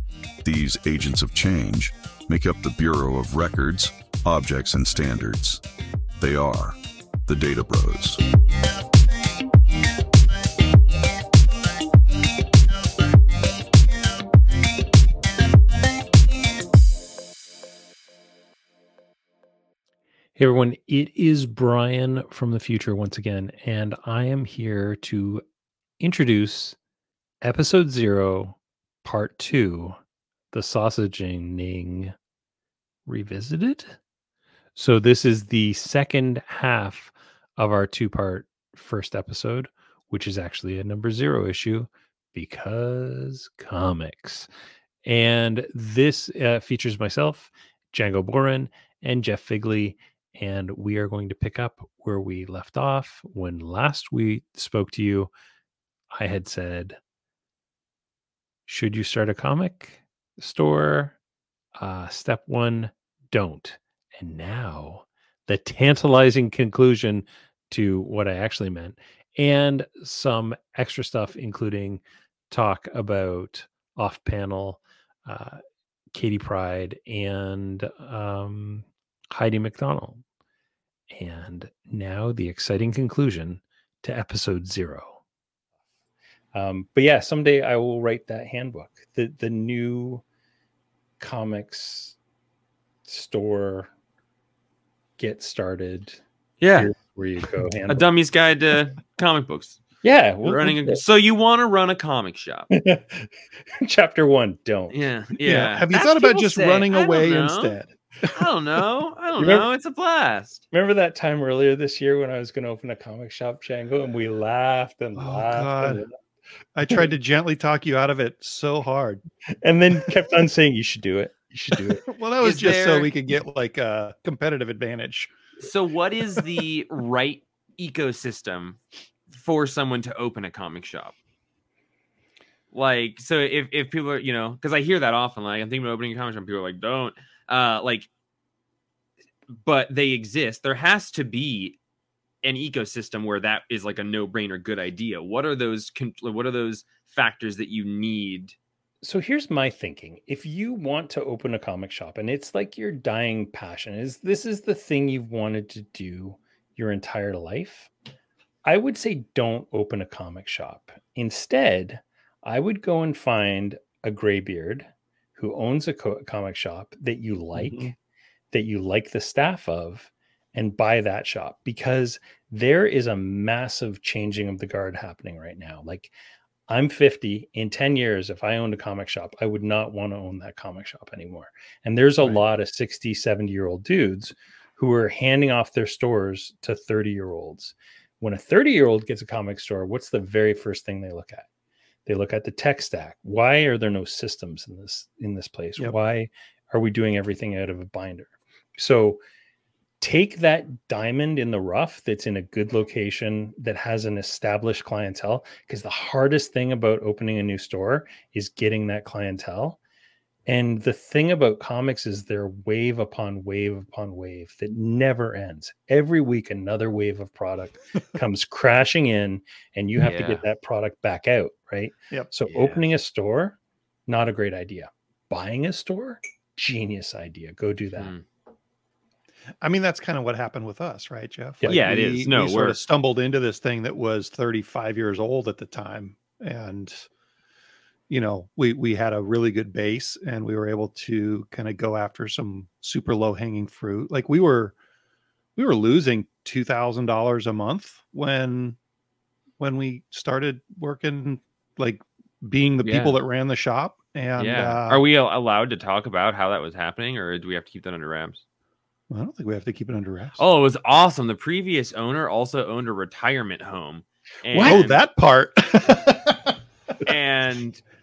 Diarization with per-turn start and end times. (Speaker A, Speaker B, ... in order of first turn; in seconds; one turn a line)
Speaker A: 0.4-5.6
Speaker A: 6.2-8.2
Speaker B: 20.4-25.4
Speaker B: 26.0-26.8
Speaker B: 27.4-30.0
Speaker B: 30.5-32.1
Speaker B: 33.1-34.0
Speaker B: 34.7-44.5
Speaker B: 45.0-55.3
Speaker B: 56.1-57.0
Speaker B: 58.7-61.2
Speaker B: 61.8-75.6
Speaker B: 76.1-80.2
Speaker B: 81.1-85.2
Speaker B: 86.5-90.2
Speaker B: 91.2-92.2
Speaker B: 93.0-93.9
Speaker B: 95.2-96.2
Speaker C: 96.6-96.9
Speaker B: 96.7-98.0
Speaker C: 97.9-99.8
Speaker B: 100.0-101.0
Speaker C: 100.4-102.7
Speaker B: 102.7-105.0
Speaker C: 104.9-107.8
Speaker D: 105.4-108.4
Speaker C: 108.3-110.6
Speaker B: 109.4-109.7
Speaker B: 110.7-116.1
Speaker D: 115.2-116.0
Speaker D: 116.8-119.2
Speaker B: 119.6-122.0
Speaker D: 121.9-125.4
Speaker C: 122.4-123.1
Speaker C: 125.6-131.1
Speaker C: 132.7-138.1
Speaker C: 139.5-141.8
Speaker C: 142.4-148.6
Speaker B: 149.0-157.9
Speaker B: 158.6-167.9
Speaker D: 167.5-167.9
Speaker B: 168.5-176.1
Speaker B: 176.7-191.5
Speaker B: 192.1-199.2
Speaker B: 200.0-209.8
Speaker B: 210.5-228.1
Speaker C: 220.0-220.4
Speaker C: 222.5-222.8
Speaker C: 228.0-228.2
Speaker D: 229.6-237.1
Speaker C: 231.7-232.8
Speaker D: 238.1-244.7
Speaker D: 245.6-248.8
Speaker D: 249.6-255.0
Speaker C: 252.8-253.2
Speaker C: 254.4-258.4
Speaker D: 259.1-260.4
Speaker C: 260.4-265.0
Speaker D: 264.5-266.5
Speaker C: 267.0-267.8